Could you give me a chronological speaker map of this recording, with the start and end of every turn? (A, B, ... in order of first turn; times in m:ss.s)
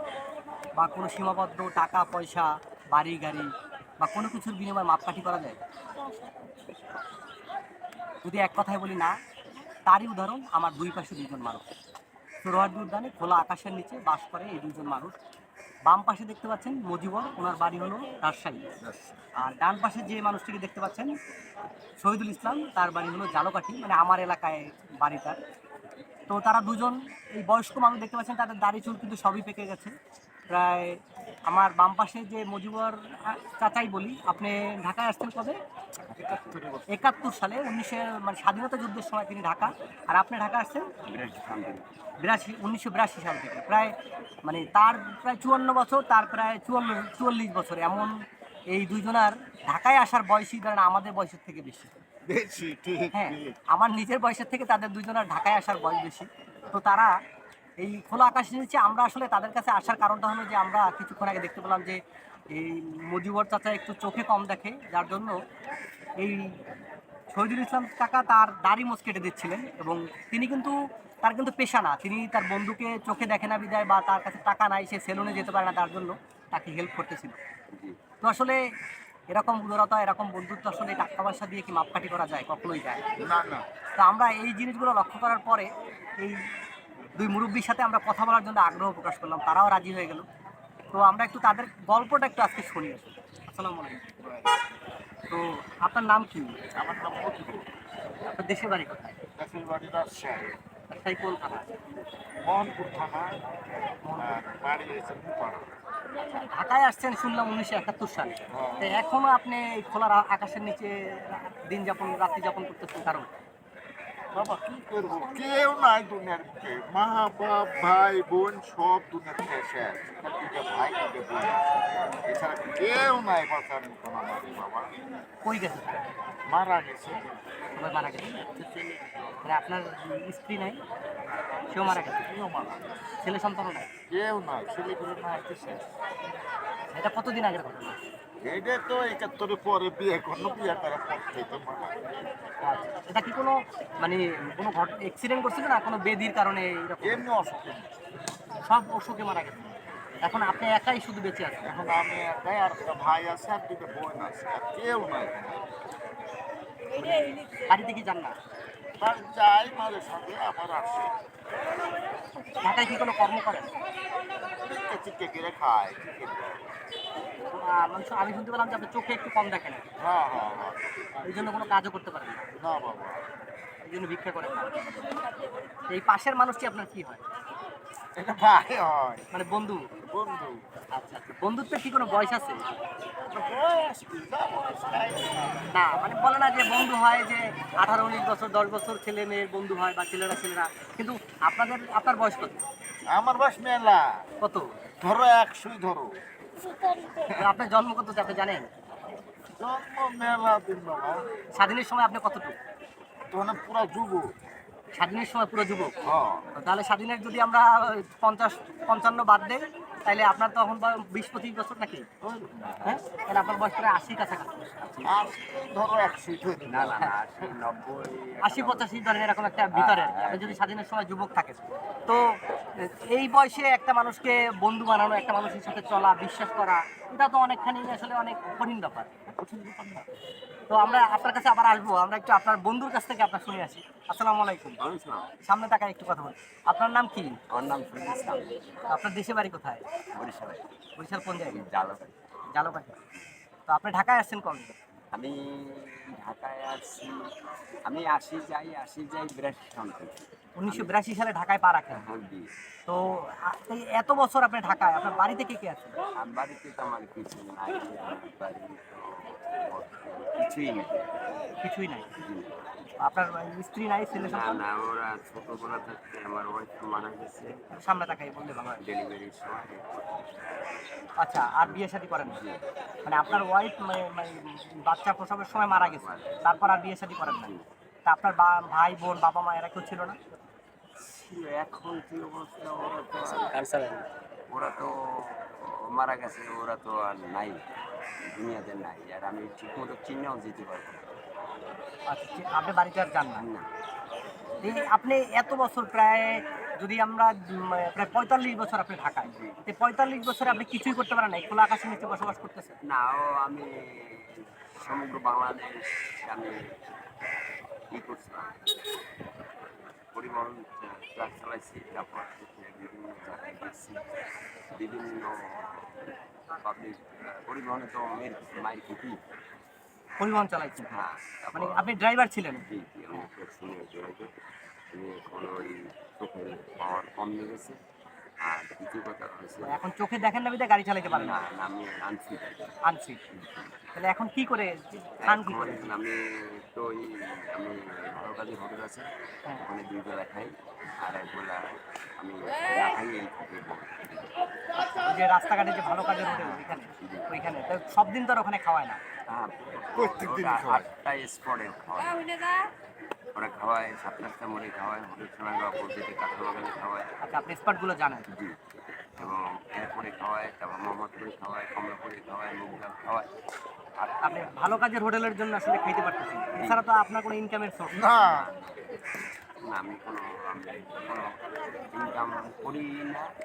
0:00.8-0:05.6 A
0:08.2-0:09.2 A
0:09.9-0:11.6 A
0:12.4-0:15.2 A
0:15.9-0:18.7 A
0:18.8-0:19.2 B
0:19.4-0:21.1 A
0:22.0-0:25.4 A
0:26.3-0:29.9 A
0:30.5-0:35.6 A
0:36.1-0:37.1 B
0:36.9-0:40.9 A
0:41.0-0:41.9 C
0:42.2-0:43.9 A
0:44.4-0:48.1 A
0:48.7-0:51.9 A
0:52.3-0:53.6 B
0:53.1-0:57.1 A
0:57.8-1:02.0 A
1:02.5-1:05.4 A
1:06.2-1:06.6 A
1:07.3-1:17.4 A
1:18.2-1:18.6 A
1:19.3-1:23.0 A
1:23.2-1:23.6 B
1:24.0-1:25.7 A
1:26.2-1:26.5 A
1:27.2-1:30.2 A
1:30.9-1:34.1 A
1:35.3-1:36.5 A
1:36.8-1:37.7 B
1:38.2-1:39.2 A
1:39.4-1:40.6 B
1:40.9-1:41.7 A
1:42.4-1:43.3 B
1:44.1-1:44.4 A
1:44.2-1:45.7 B
1:46.4-1:53.3 A
1:48.5-1:49.0 B
1:54.3-2:04.9 B
2:05.4-2:06.0 A
2:06.5-2:07.3 B
2:07.8-2:08.5 A
2:08.7-2:09.3 C
2:09.4-2:10.8 A
2:11.7-2:12.3 A
2:12.0-2:12.9 B
2:13.2-2:13.9 A
2:14.1-2:15.8 B
2:16.9-2:18.0 A
2:18.4-2:22.0 B
2:22.6-2:27.3 A
2:27.0-2:27.9 B
2:28.6-2:29.6 A
2:30.2-2:31.7 A
2:31.6-2:35.6 B
2:37.0-2:38.4 A
2:39.0-2:41.2 B
2:42.6-2:43.7 A
2:44.6-2:46.6 B
2:47.5-2:49.9 A
2:50.0-2:51.6 B
2:51.2-2:52.5 A
2:52.6-2:53.2 B
2:53.8-2:54.9 A
2:55.9-2:57.2 A
2:58.2-2:59.3 B
2:59.3-2:59.9 A
3:00.0-3:00.6 B
3:00.9-3:02.6 A
3:03.2-3:05.6 B
3:05.7-3:12.6 A
3:13.1-3:14.2 B
3:14.4-3:14.7 A
3:15.0-3:16.2 B
3:17.3-3:18.7 A
3:19.6-3:21.2 B
3:21.6-3:22.6 A
3:23.3-3:24.3 B
3:25.0-3:26.0 A
3:26.0-3:26.5 B
3:26.6-3:32.1 A
3:32.2-3:32.9 B
3:32.8-3:34.6 A
3:34.8-3:35.3 C
3:35.0-3:37.1 B
3:36.7-3:40.6 C
3:38.4-3:49.1 A
3:49.3-3:50.1 B
3:50.7-3:54.8 A
3:54.8-3:55.3 C
3:55.4-3:57.4 A
3:57.5-3:58.9 C
3:58.9-3:59.8 A
4:00.2-4:00.7 C
4:01.0-4:01.6 A
4:01.4-4:02.2 C
4:02.5-4:03.0 A
4:03.7-4:04.7 A
4:05.1-4:07.3 C
4:07.9-4:10.9 C
4:10.6-4:12.0 A
4:11.9-4:12.5 C
4:12.9-4:16.0 A
4:16.2-4:21.0 C
4:21.6-4:22.1 A
4:22.2-4:22.6 C
4:23.0-4:24.6 A
4:24.1-4:28.2 C
4:27.8-4:28.8 A
4:28.8-4:33.4 C
4:31.2-4:32.4 A
4:33.1-4:37.5 A
4:35.6-4:36.6 C
4:37.2-4:37.6 C
4:38.1-4:40.2 A
4:41.0-4:47.6 C
4:48.3-4:51.1 C
4:52.1-4:53.5 A
4:53.4-4:53.7 C
4:54.6-5:02.8 A
4:59.3-4:59.6 C
5:02.8-5:06.6 C
5:07.9-5:08.6 C
5:10.1-5:14.1 C
5:14.7-5:16.0 C
5:16.6-5:19.2 C
5:20.2-5:21.0 A
5:20.8-5:22.0 C
5:21.5-5:22.6 A
5:22.5-5:24.3 C
5:24.9-5:27.8 C
5:28.4-5:29.8 C
5:29.6-5:31.4 A
5:31.0-5:32.8 C
5:32.8-5:33.2 A
5:33.3-5:33.8 C
5:34.0-5:35.9 A
5:35.2-5:44.3 C
5:44.8-5:49.0 A
5:46.3-5:47.5 C
5:49.3-5:52.4 C
5:50.0-5:50.9 B
5:53.4-5:57.1 C
5:57.2-5:58.3 A
5:58.3-5:58.6 C
5:59.2-6:03.3 C
6:04.2-6:08.0 A
6:06.5-6:06.8 C
6:07.9-6:08.5 B
6:08.2-6:08.9 C
6:09.6-6:11.4 C
6:11.9-6:13.3 C